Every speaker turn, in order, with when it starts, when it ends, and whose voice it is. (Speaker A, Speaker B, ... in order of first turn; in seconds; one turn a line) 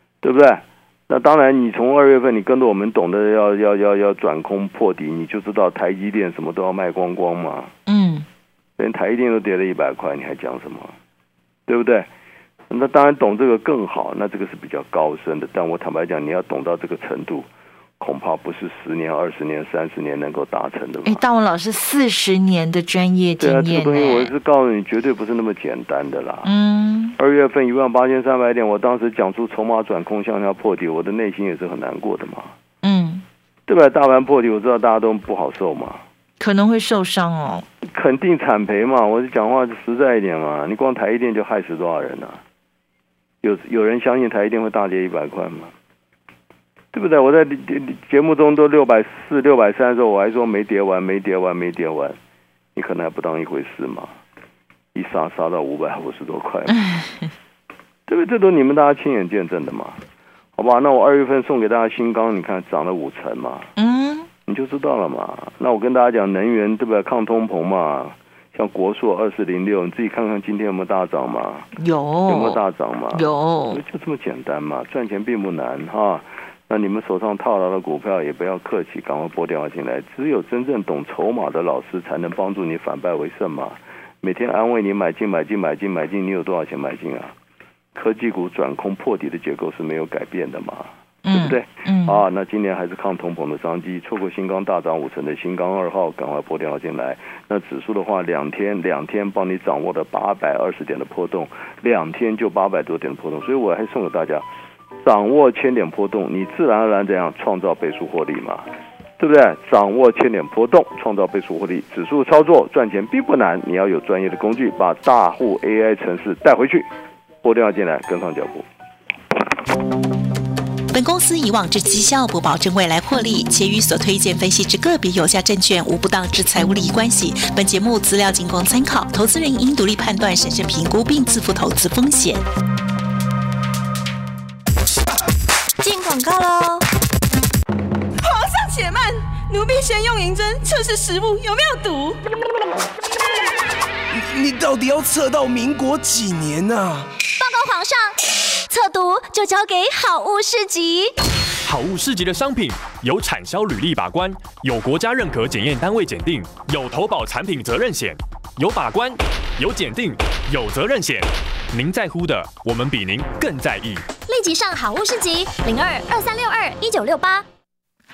Speaker A: 0.2-7.7
Speaker B: 7.9-8.2
Speaker A: 8.8-10.9
Speaker A: 11.7-12.1
Speaker A: 12.7-17.5
Speaker A: 18.0-21.2
Speaker B: 21.1-24.3
Speaker A: 23.4-26.5
Speaker B: 26.4-27.1
Speaker A: 27.2-32.5
Speaker B: 32.8-33.2
Speaker A: 33.7-36.0
Speaker B: 36.4-37.6
Speaker A: 37.8-42.4
Speaker A: 43.4-45.7
Speaker A: 46.9-52.2
Speaker A: 52.7-54.2
Speaker A: 54.9-56.8
Speaker A: 58.1-60.0
Speaker A: 60.5-63.7
Speaker B: 63.8-64.3
Speaker A: 64.5-71.7
Speaker B: 71.8-72.6
Speaker A: 72.3-87.3
Speaker B: 73.1-73.8
Speaker A: 87.9-104.4
Speaker B: 91.2-92.2
Speaker A: 105.0-116.9
Speaker A: 117.4-118.7
Speaker C: 120.9-132.4
Speaker D: 135.8-136.8
Speaker E: 138.2-142.2
Speaker F: 144.1-147.1
Speaker D: 147.4-148.2
Speaker D: 148.7-151.1
Speaker G: 151.6-164.1
Speaker D: 164.2-167.4